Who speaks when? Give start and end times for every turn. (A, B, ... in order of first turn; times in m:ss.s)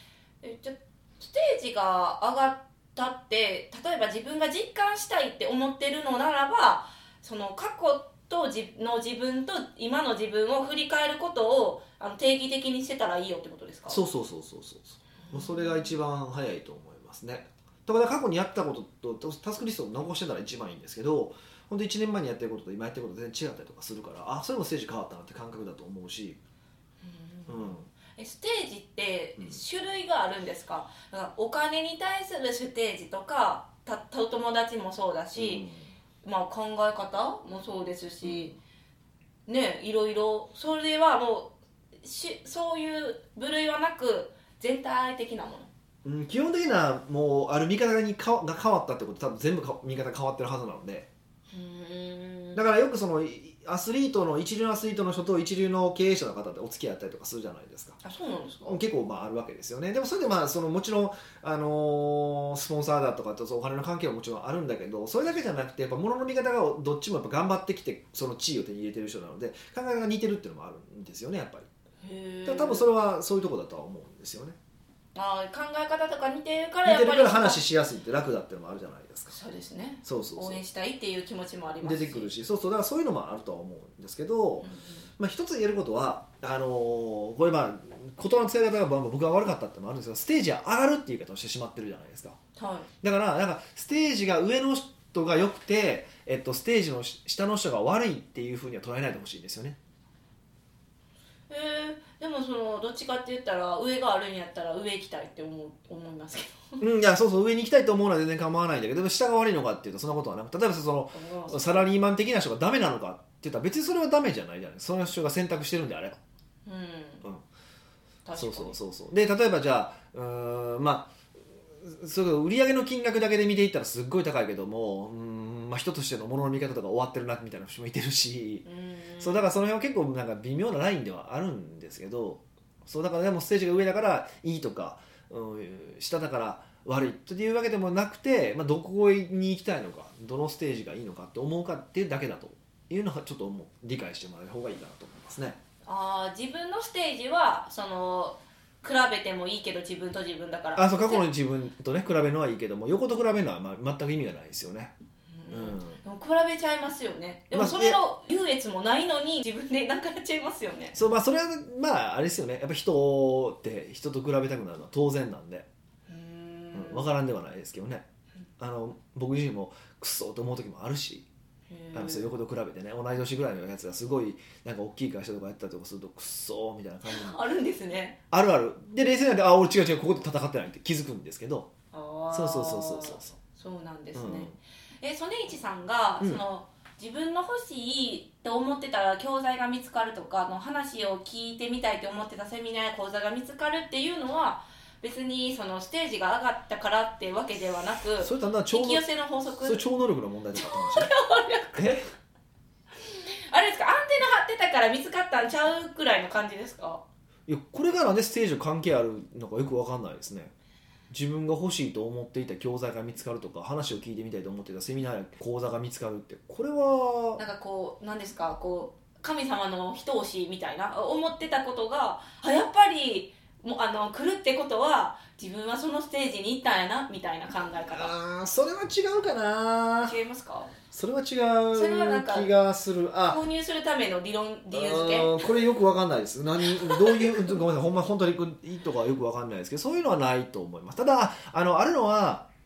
0:00.4-0:14.0 A
0:13.9-0:26.4 B
0:15.3-0:16.0 A
0:27.0-0:35.6 A
0:27.5-0:27.9 B
0:35.4-0:35.9 B
0:36.2-0:38.5 A
0:38.2-0:38.6 B
0:39.5-0:45.7 A
0:46.0-0:51.1 B
0:51.5-0:52.6 A
0:52.6-0:58.0 B
0:58.0-0:58.8 A
0:58.6-1:11.7 B
1:12.0-1:12.9 A
1:12.5-1:14.6 B
1:15.2-1:17.6 A
1:16.8-1:19.4 B
1:19.3-1:22.3 A
1:20.0-1:20.6 B
1:21.8-1:32.4 B
1:24.6-1:25.1 A
1:32.6-1:32.9 A
1:33.0-1:39.8 B
1:41.5-1:46.8 A
1:46.8-1:56.2 B
1:51.1-1:51.9 A
1:56.6-1:57.2 A
1:58.2-1:58.8 A
1:58.3-2:01.1 B
2:01.8-2:08.7 B
2:08.6-2:09.5 A
2:09.2-2:25.6 B
2:25.8-2:31.3 A
2:30.8-2:34.9 B
2:35.3-2:41.0 A
2:35.5-2:36.0 B
2:37.5-2:38.0 B
2:40.9-2:45.7 B
2:46.1-2:47.1 A
2:46.7-2:48.0 B
2:48.6-2:51.3 B
2:51.7-2:52.3 A
2:51.9-2:57.4 B
2:57.1-2:58.2 A
2:58.3-3:01.7 B
3:01.9-3:19.8 A
3:02.3-3:03.3 B
3:04.2-3:04.6 B
3:18.2-3:19.0 B
3:19.6-3:21.1 B
3:20.6-3:22.0 A
3:21.8-3:22.1 B
3:23.0-3:27.0 A
3:27.5-3:30.5 B
3:31.1-3:37.4 B
3:37.4-3:48.1 A
3:47.9-3:50.2 B
3:50.0-3:50.7 A
3:50.9-3:53.4 B
3:51.7-3:52.5 A
3:53.3-3:55.3 A
3:54.7-4:02.5 B
3:56.8-3:57.6 A